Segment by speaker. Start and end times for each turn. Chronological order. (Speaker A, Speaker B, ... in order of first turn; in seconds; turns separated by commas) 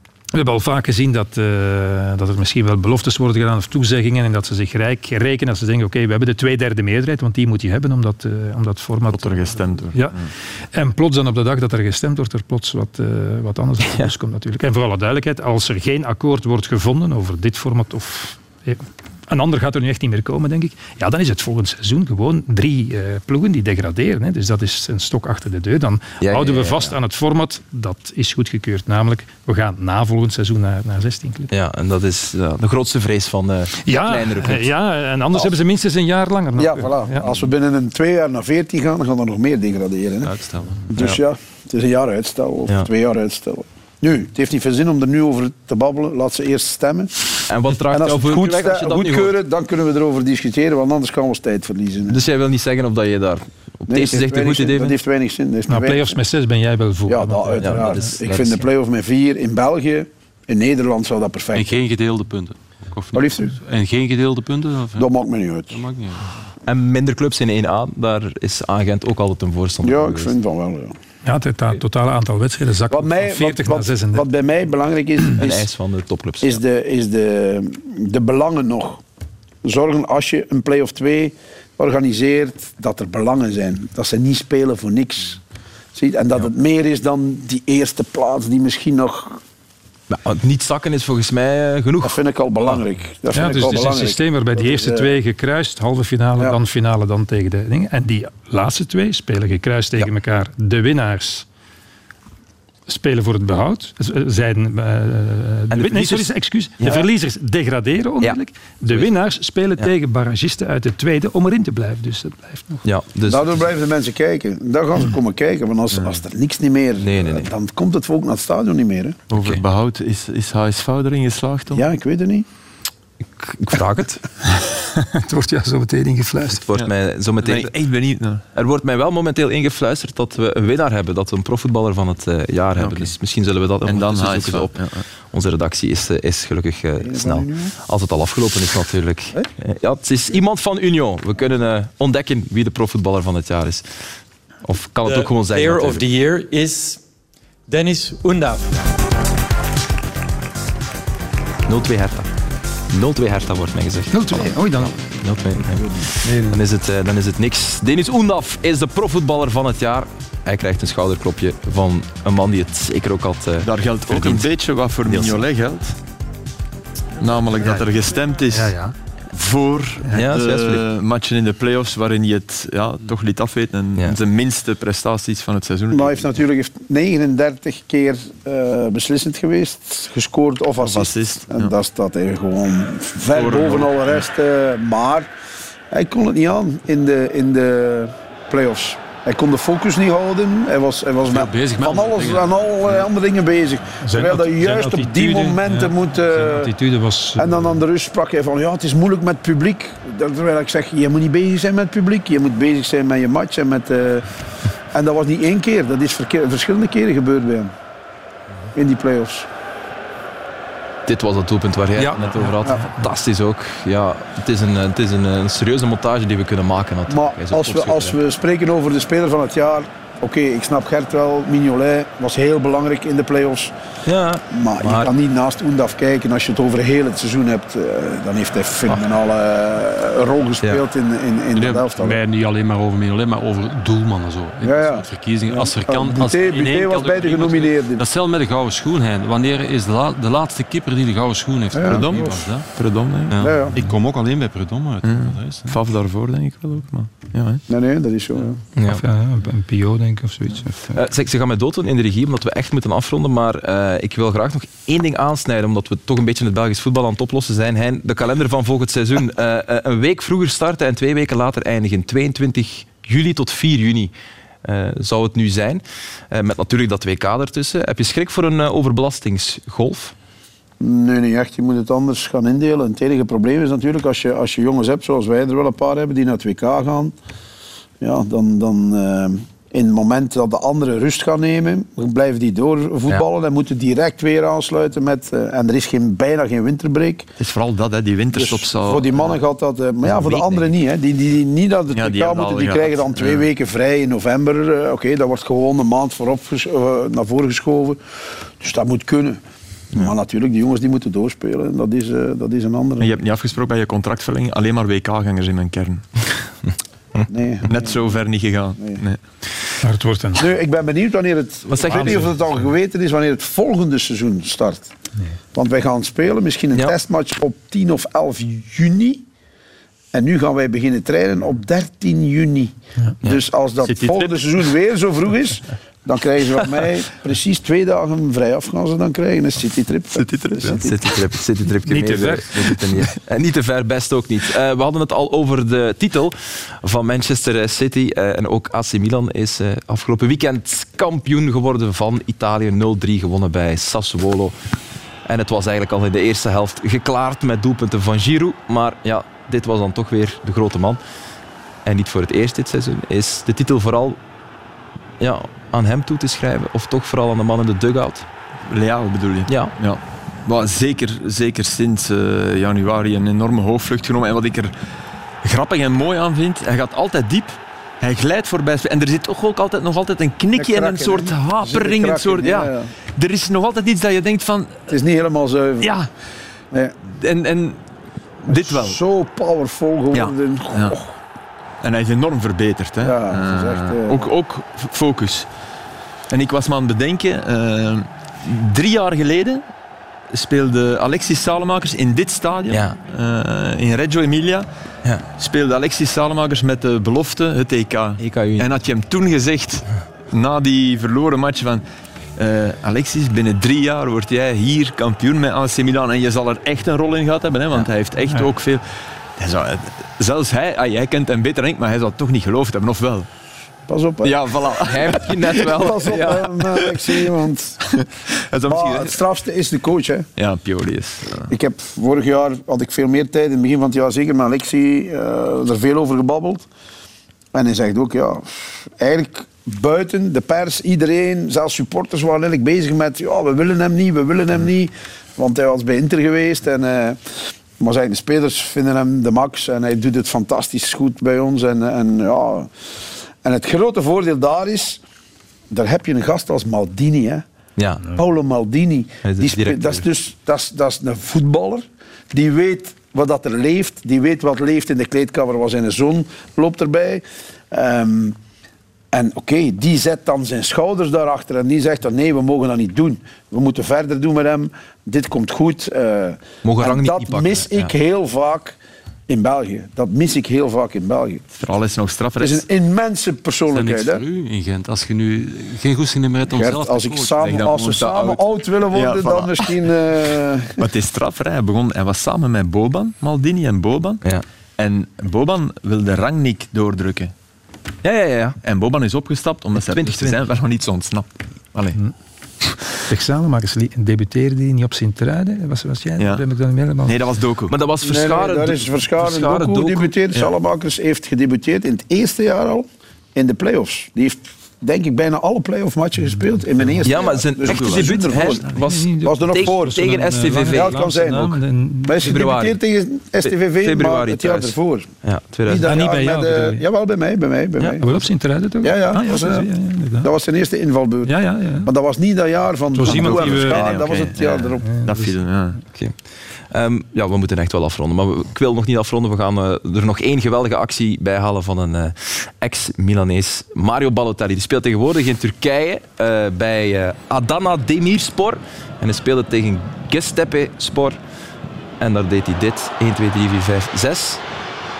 Speaker A: 0.3-31.5, Speaker B: 9.1-10.3, Speaker C: 26.2-26.9, Speaker C: 31.5-34.7, Speaker A: 33.8-37.3, Speaker D: 36.5-40.3, Speaker E: 40.2-40.9, Speaker D: 40.9-47.1, Speaker C: 47.5-49.3, Speaker D: 47.8-52.2, Speaker C: 52.1-55.0, Speaker D: 53.9-56.1, Speaker A: 55.7-58.2, Speaker D: 57.1-61.8, Speaker C: 57.6-58.6, Speaker E: 61.5-65.1, Speaker D: 63.1-63.5, Speaker D: 65.0-65.8, Speaker E: 65.7-66.3, Speaker C: 66.7-70.3, Speaker D: 69.8-71.0, Speaker A: 71.2-74.2, Speaker D: 72.9-75.7, Speaker C: 75.4-76.6, Speaker D: 76.4-79.0, Speaker D: 79.6-85.4, Speaker D: 85.9-89.4, Speaker C: 90.1-92.8, Speaker D: 92.0-95.1, Speaker A: 93.3-101.5, Speaker A: 102.9-112.8, Speaker C: 105.7-107.0, Speaker C: 108.2-109.1, Speaker C: 112.8-113.5, Speaker D: 113.3-119.2, Speaker C: 117.0-117.5, Speaker B: 119.3-121.8, Speaker C: 119.3-119.6, Speaker D: 121.7-122.5, Speaker C: 123.4-124.2, Speaker A: 124.5-126.6, Speaker C: 126.6-127.7, Speaker B: 127.4-128.4, Speaker C: 128.5-144.0, Speaker B: 132.8-133.1, Speaker B: 133.8-135.0, Speaker D: 137.0-137.7, Speaker C: 144.6-146.1, Speaker F: 145.0-147.0, Speaker F: 147.7-148.8, Speaker C: 151.7-152.3, Speaker C: 152.9-164.5, Speaker A: 154.1-155.0, Speaker D: 155.7-156.1, Speaker A: 156.2-156.6, Speaker B: 163.6-165.9, Speaker C: 165.1-165.4, Speaker B: 167.2-168.8, Speaker B: 169.3-176.3, Speaker C: 170.1-170.8, Speaker D: 175.9-185.3, Speaker B: 180.8-181.7, Speaker B: 183.3-184.1, Speaker D: 185.9-196.7, Speaker E: 191.3-192.5, Speaker A: 194.0-197.8, Speaker D: 197.4-204.3, Speaker D: 204.9-207.7, Speaker D: 208.7-209.5, Speaker C: 211.1-218.2, Speaker E: 212.0-212.3, Speaker D: 217.1-223.7, Speaker C: 224.1-225.1, Speaker D: 224.5-232.2, Speaker E: 231.5-242.7, Speaker D: 234.6-238.0, Speaker D: 241.7-242.4, Speaker B: 241.9-243.4, Speaker E: 243.3-245.8, Speaker D: 243.4-243.8, Speaker B: 245.0-247.6, Speaker D: 247.7-248.6, Speaker C: 248.7-249.0, Speaker A: 248.8-251.0, Speaker C: 250.9-264.1, Speaker C: 264.6-270.1, Speaker D: 270.8-277.1, Speaker D: 278.0-287.3, Speaker B: 287.4-289.1, Speaker D: 288.3-298.0, Speaker B: 291.9-293.4, Speaker D: 298.6-299.4, Speaker D: 299.9-303.1, Speaker B: 303.0-306.1, Speaker D: 307.3-308.1, Speaker B: 307.6-309.2, Speaker A: 309.8-310.4, Speaker D: 310.4-314.9, Speaker C: 311.7-312.3, Speaker D: 315.5-319.2, Speaker D: 320.1-331.0, Speaker B: 330.1-330.8, Speaker C: 330.6-344.5, Speaker A: 331.9-332.4, Speaker C: 345.2-351.0, Speaker C: 351.8-354.2, Speaker C: 355.2-358.2, Speaker B: 358.7-364.7, Speaker C: 359.5-359.7, Speaker B: 365.4-374.9, Speaker D: 370.5-372.9, Speaker D: 374.9-375.9, Speaker B: 375.8-376.1, Speaker B: 377.1-377.8, Speaker B: 378.4-379.0, Speaker D: 378.5-381.2, Speaker B: 380.1-380.9, Speaker B: 381.8-385.5, Speaker D: 383.0-384.3, Speaker B: 386.3-389.6, Speaker B: 390.3-394.6, Speaker B: 395.4-401.8, Speaker C: 398.2-398.7, Speaker B: 402.4-413.3, Speaker D: 413.9-417.9, Speaker B: 414.2-415.7, Speaker C: 414.9-416.5, Speaker B: 417.9-419.1, Speaker D: 418.7-420.3, Speaker B: 420.4-421.5, Speaker D: 421.5-426.7, Speaker D: 427.5-437.2, Speaker D: 437.8-442.7, Speaker D: 443.4-445.0, Speaker D: 445.7-447.4, Speaker C: 447.8-448.2, Speaker D: 448.1-458.4, Speaker C: 449.2-450.0, Speaker D: 459.1-471.5, Speaker C: 466.6-467.9, Speaker B: 471.6-472.6, Speaker D: 472.4-474.2, Speaker E: 473.7-477.7, Speaker D: 476.4-480.8, Speaker B: 477.4-479.8, Speaker B: 480.8-484.2, Speaker B: 484.8-487.3, Speaker C: 488.0-488.6, Speaker B: 488.6-492.0, Speaker C: 489.8-490.4, Speaker A: 493.1-497.2, Speaker B: 496.2-496.4, Speaker B: 497.0-497.7, Speaker C: 497.7-500.1, Speaker D: 498.0-508.7, Speaker C: 507.0-511.4, Speaker A: 508.2-512.2, Speaker D: 509.2-515.1, Speaker C: 512.2-512.8, Speaker C: 513.4-515.9, Speaker D: 515.6-518.0, Speaker A: 515.8-516.8, Speaker A: 518.0-520.3, Speaker D: 518.8-519.7, Speaker D: 520.2-524.8, Speaker A: 521.2-521.9, Speaker A: 522.9-523.8, Speaker B: 523.0-525.8, Speaker A: 524.8-525.4, Speaker C: 525.9-541.2, Speaker C: 542.0-544.4